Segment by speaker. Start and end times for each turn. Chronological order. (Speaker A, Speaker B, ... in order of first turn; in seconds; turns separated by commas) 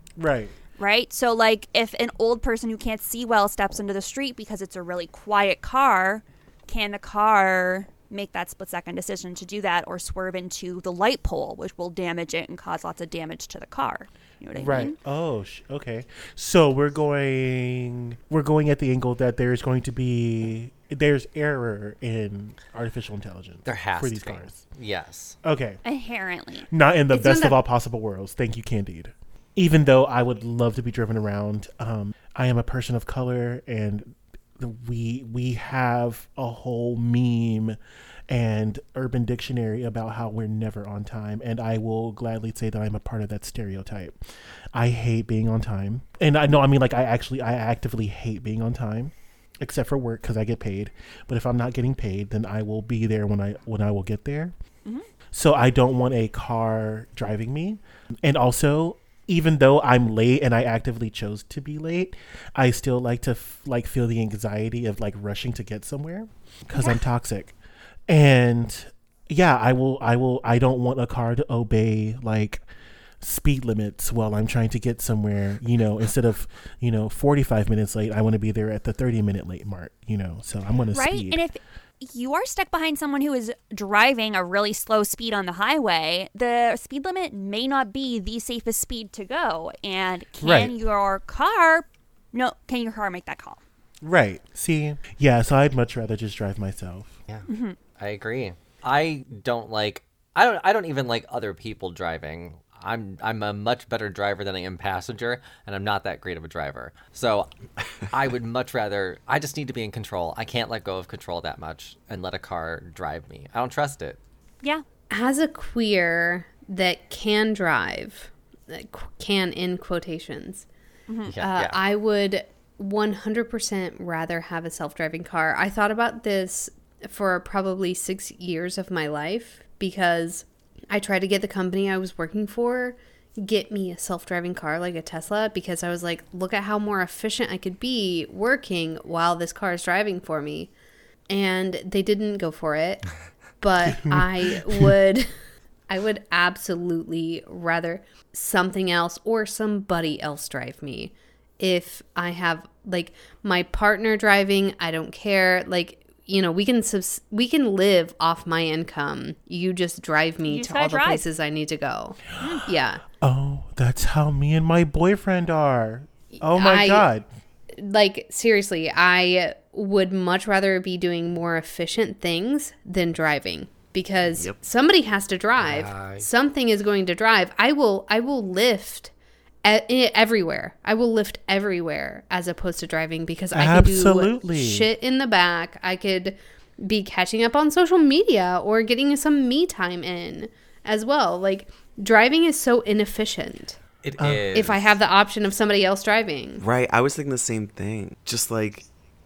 Speaker A: 0.2-0.6, Speaker B: 0.8-14.9, Speaker A: 14.6-24.6, Speaker C: 23.6-25.4, Speaker A: 25.4-25.8, Speaker B: 25.9-26.7, Speaker A: 26.7-37.8, Speaker D: 27.1-27.6, Speaker A: 38.3-44.2, Speaker A: 44.7-54.5, Speaker A: 55.3-67.5, Speaker A: 68.1-72.6, Speaker A: 73.2-81.4, Speaker B: 80.9-93.6, Speaker A: 90.4-90.8, Speaker A: 94.0-97.2, Speaker C: 97.3-107.5, Speaker B: 97.5-97.8, Speaker C: 108.1-114.2, Speaker D: 115.1-120.7, Speaker B: 121.1-121.3, Speaker C: 121.2-121.8, Speaker D: 121.4-140.7, Speaker D: 141.3-143.1, Speaker D: 143.6-145.3, Speaker A: 143.9-144.9, Speaker D: 145.9-163.0, Speaker B: 160.4-161.2, Speaker B: 162.4-162.7, Speaker A: 163.1-167.3, Speaker D: 166.4-167.1, Speaker D: 167.7-179.1, Speaker C: 175.6-176.3, Speaker D: 179.6-193.8, Speaker A: 183.5-184.9, Speaker C: 194.0-195.0, Speaker A: 194.2-194.5, Speaker D: 194.5-196.6, Speaker E: 196.6-198.9